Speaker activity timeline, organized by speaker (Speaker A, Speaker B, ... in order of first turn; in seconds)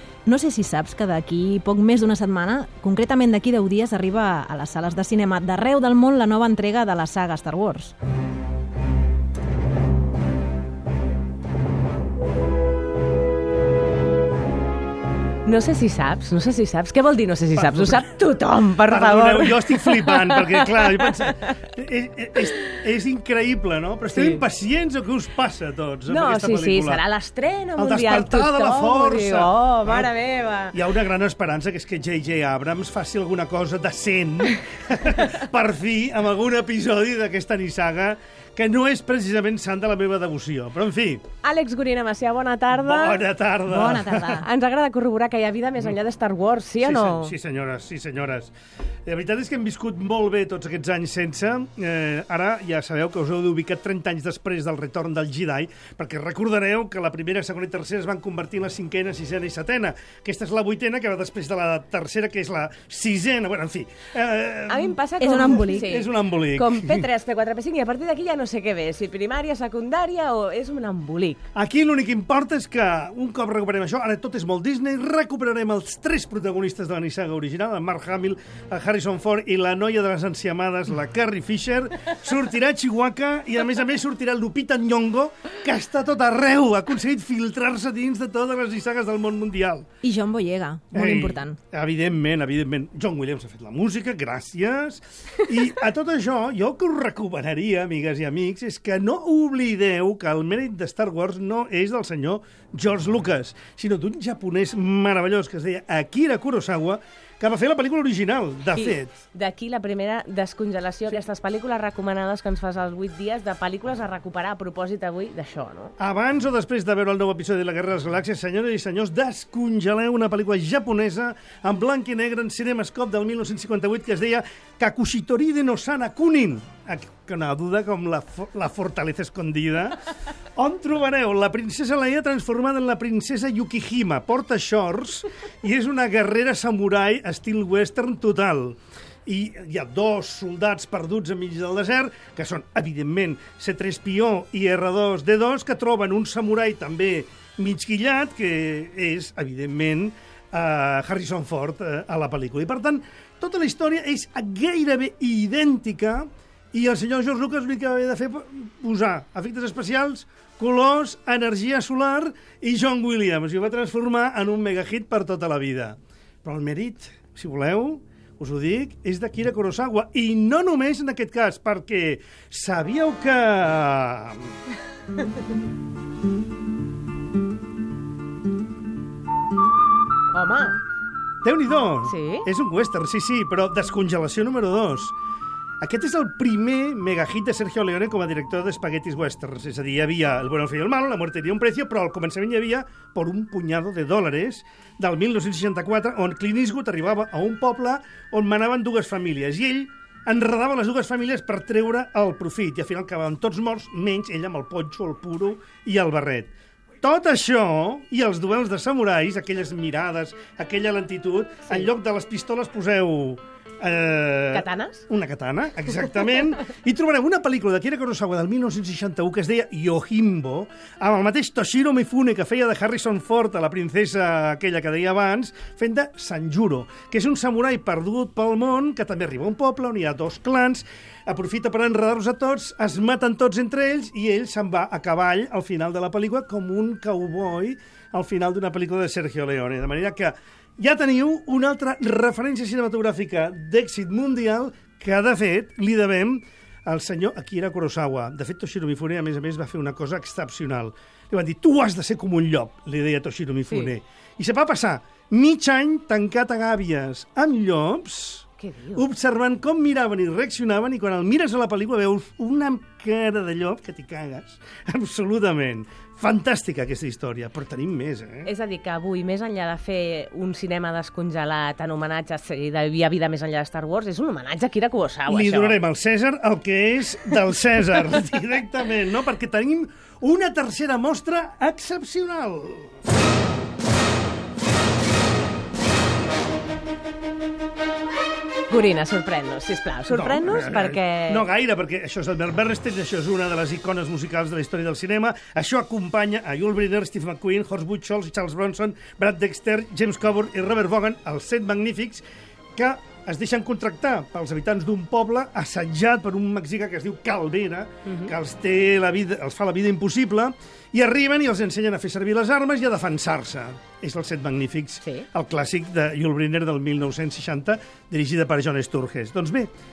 Speaker A: 0.3-7.9, 43.7-44.1, 65.2-65.9, 90.0-91.6
Speaker B: 15.4-21.6, 24.1-24.4, 26.1-30.8, 41.4-43.2, 43.8-47.3, 64.7-71.4, 108.7-116.0, 180.3-180.8, 182.1-182.5, 214.5-215.1, 258.6-259.1, 268.4-275.8, 288.7-291.4, 308.1-308.3
Speaker C: 17.5-18.1, 18.9-27.0, 27.8-30.1, 30.7-41.2, 42.8-44.4, 46.8-48.5, 49.0-67.1, 71.5-89.9, 90.9-109.1, 116.0-130.0, 130.6-174.6, 181.4-185.2, 185.8-268.5, 275.3-283.0, 290.1-302.2, 302.8-319.7